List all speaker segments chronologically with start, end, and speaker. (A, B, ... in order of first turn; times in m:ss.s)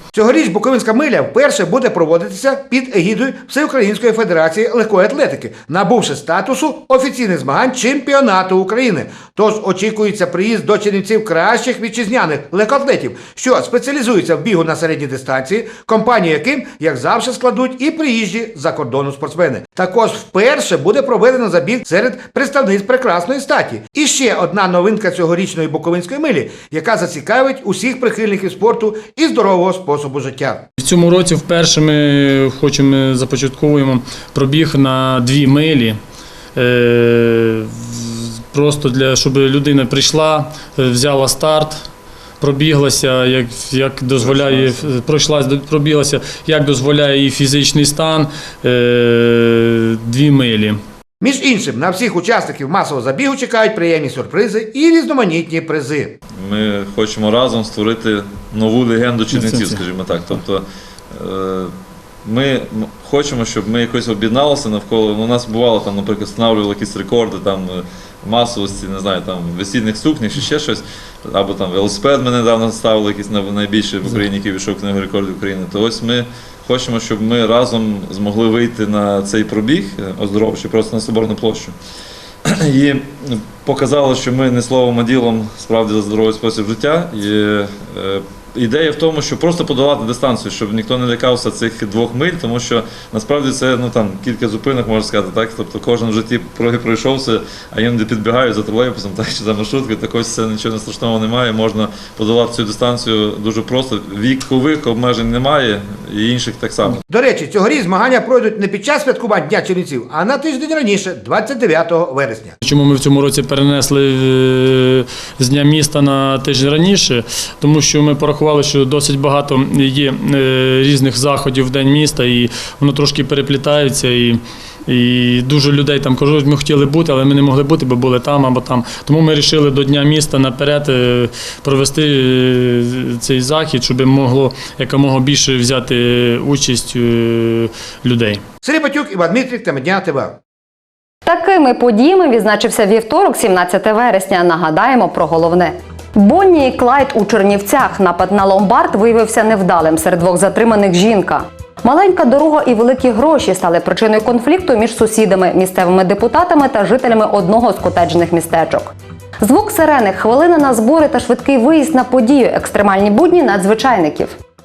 0:00.1-0:30.6 A
0:30.8-0:36.0 B
0:36.5-0:41.8 B
0:42.4-0:50.8 B
0:51.2-0:56.1 A
0:56.4-1:01.7 C
0:59.3-0:59.8 B
1:02.2-1:21.7 C
1:22.5-1:47.0 C
1:47.1-1:52.6 A
1:52.6-2:18.4 B
2:18.6-2:20.3 A
2:21.2-2:44.4 D